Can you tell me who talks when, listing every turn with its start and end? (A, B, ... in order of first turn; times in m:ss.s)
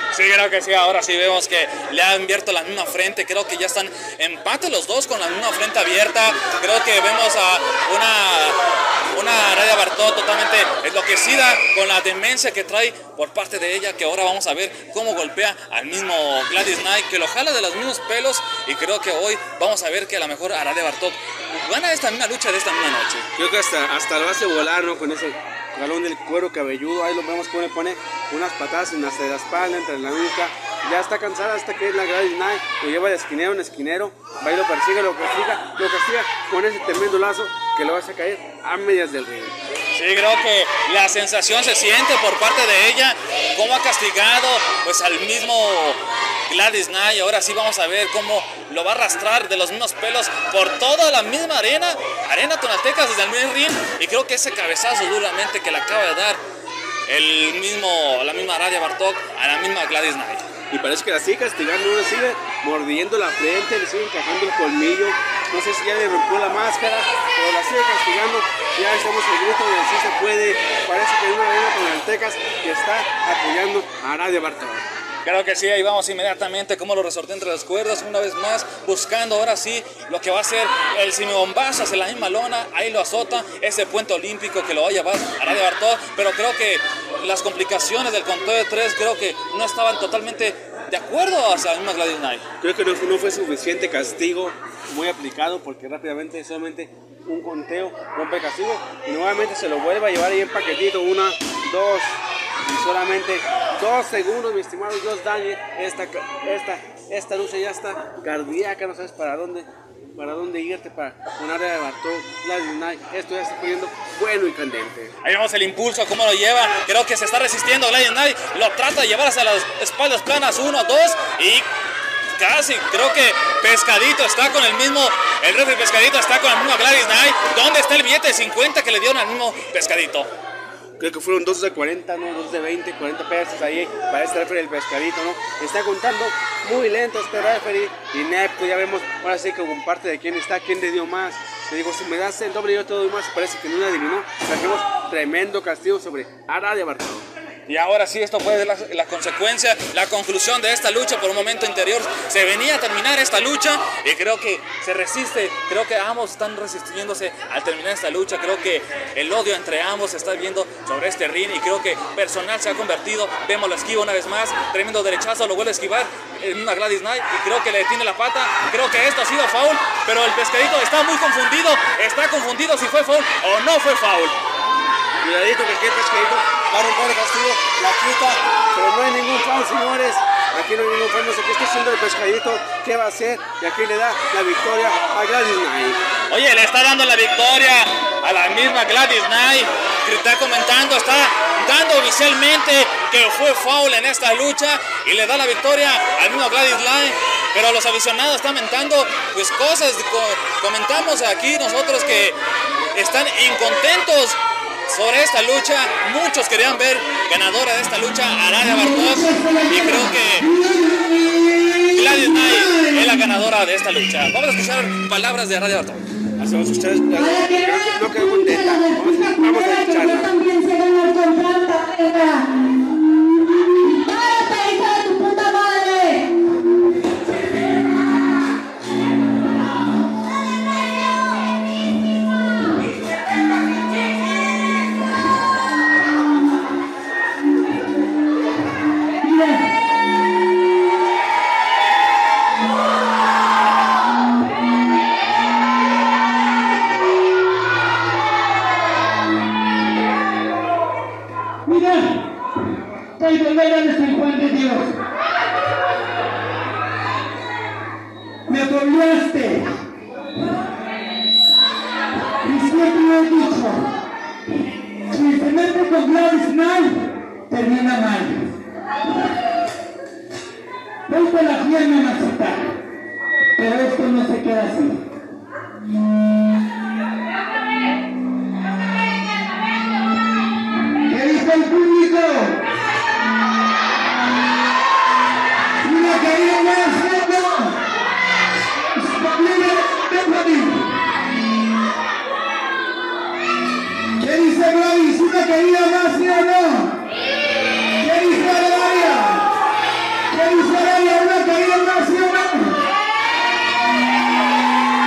0:00.1-0:08.6 A
0:09.1-0:23.2 A
0:23.4-0:39.5 B
0:39.9-0:56.4 A
0:57.1-1:00.5 A
1:00.7-1:14.8 B
1:15.2-1:32.4 A
1:32.6-1:55.1 B
1:55.2-2:01.7 A
2:02.4-2:10.3 A
2:11.0-2:27.2 B
2:27.7-2:54.4 A
2:55.2-3:06.0 B
3:06.3-3:22.4 A
3:22.9-3:30.6 A
3:29.2-3:29.8 C
3:30.4-3:31.6 C
3:31.8-3:36.0 A
3:36.4-3:40.4 B
3:39.0-3:42.6 C
3:44.2-3:46.4 C
3:59.2-3:59.8 C
4:11.6-4:12.4 C
4:13.2-4:15.0 C
4:18.5-4:19.9 C
4:22.4-4:24.0 C
4:25.1-4:28.5 C
4:31.1-4:32.8 C
4:33.5-4:35.1 C
4:41.0-4:42.6 C
4:45.8-4:47.8 C
4:48.9-4:51.0 C
4:54.1-4:57.0 C
4:58.0-4:59.5 C
5:00.3-5:02.8 C